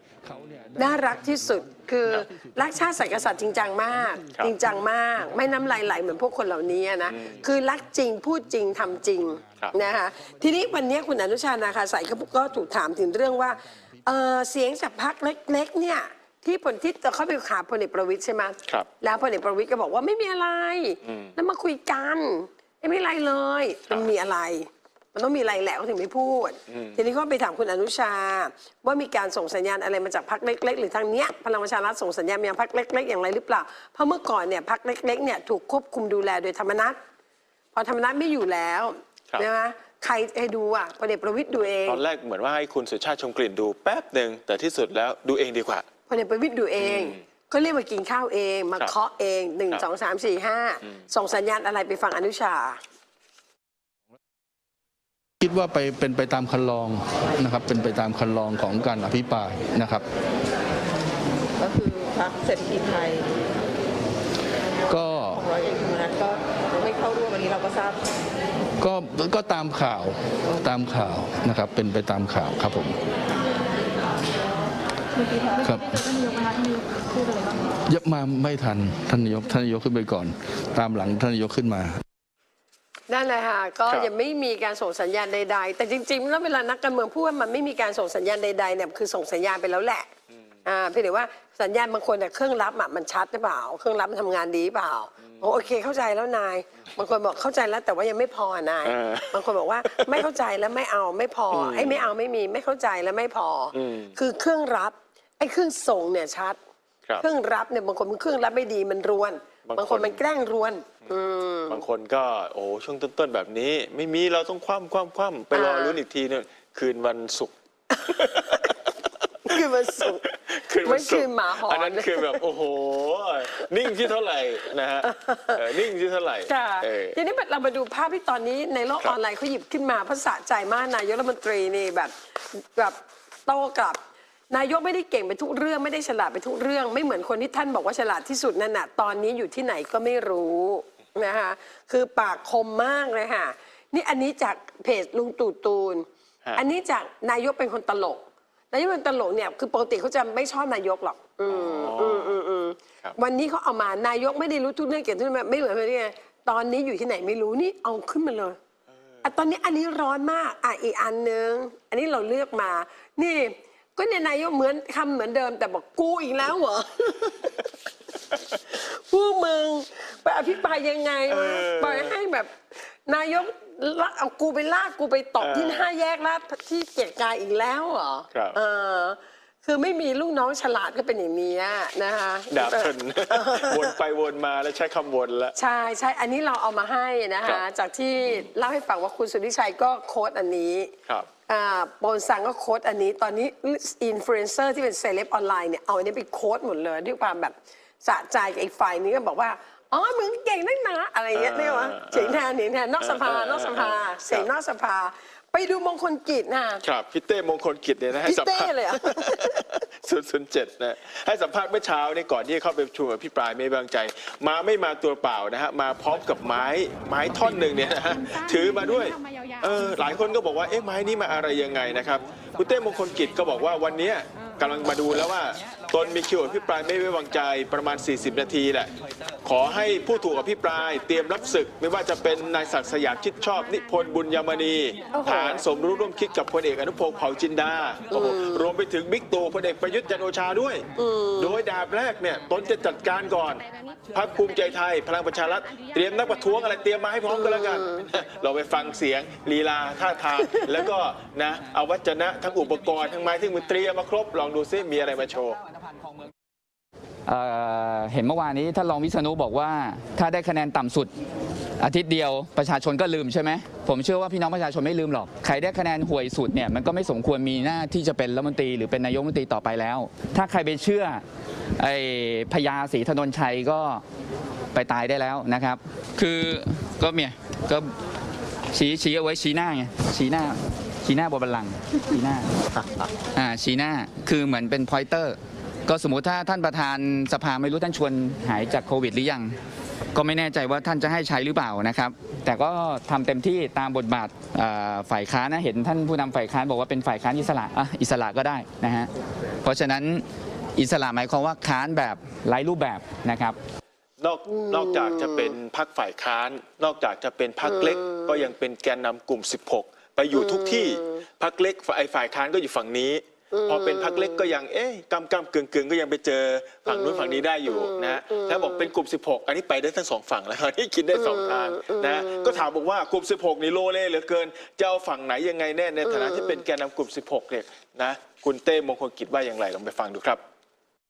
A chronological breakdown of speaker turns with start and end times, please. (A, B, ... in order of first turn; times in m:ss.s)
0:00.3-0:00.8 A
0:00.8-0:37.0 B
0:07.1-0:07.4 A
0:21.0-0:21.3 A
0:26.7-0:27.0 A
0:37.7-0:42.0 B
0:41.8-0:45.8 A
0:46.1-0:52.8 B
0:46.8-0:47.2 A
0:55.4-1:00.1 C
1:01.6-1:03.3 D
1:04.9-1:05.5 C
1:05.4-1:08.0 D
1:08.8-1:13.0 C
1:15.6-1:16.1 C
1:17.9-1:22.0 C
1:23.1-1:30.1 B
1:30.6-1:46.6 B
1:35.2-1:35.6 A
1:38.8-1:40.2 A
1:41.5-1:42.1 A
1:43.7-1:44.1 A
1:47.2-1:51.8 B
1:49.6-1:50.2 A
1:51.7-1:58.9 A
1:55.5-1:56.0 B
1:59.4-2:00.2 B
2:00.0-2:07.2 A
2:00.8-2:02.4 B
2:05.0-2:05.6 B
2:06.4-2:14.0 B
2:14.5-2:38.6 B
2:31.5-2:32.4 A
2:39.2-2:47.7 B
2:48.7-3:03.9 B
2:51.3-2:52.1 A
2:55.4-2:55.9 A
2:58.3-2:58.6 A
3:02.5-3:05.5 A
3:05.6-3:10.9 B
3:11.5-3:26.8 B
3:21.3-3:22.4 A
3:23.0-3:24.5 A
3:26.8-3:48.9 A
3:28.2-3:29.7 B
3:49.4-4:00.8 A
3:55.1-3:55.6 B
3:58.1-3:58.7 B
4:01.0-4:01.6 B
4:01.4-4:15.6 A
4:07.3-4:08.0 B
4:17.2-4:21.1 E
4:21.8-4:31.2 E
4:31.8-4:34.0 E
4:34.7-4:37.9 E
4:38.7-4:42.5 E
4:43.3-4:49.6 E
4:50.1-4:59.1 E
4:59.6-5:00.2 E
5:00.8-5:03.6 E
5:04.2-5:30.4 A
5:04.5-5:05.6 B
5:07.6-5:08.4 B
5:10.3-5:11.2 B
5:13.5-5:14.5 B
5:16.8-5:18.9 B
5:21.1-5:22.7 B
5:26.0-5:26.6 B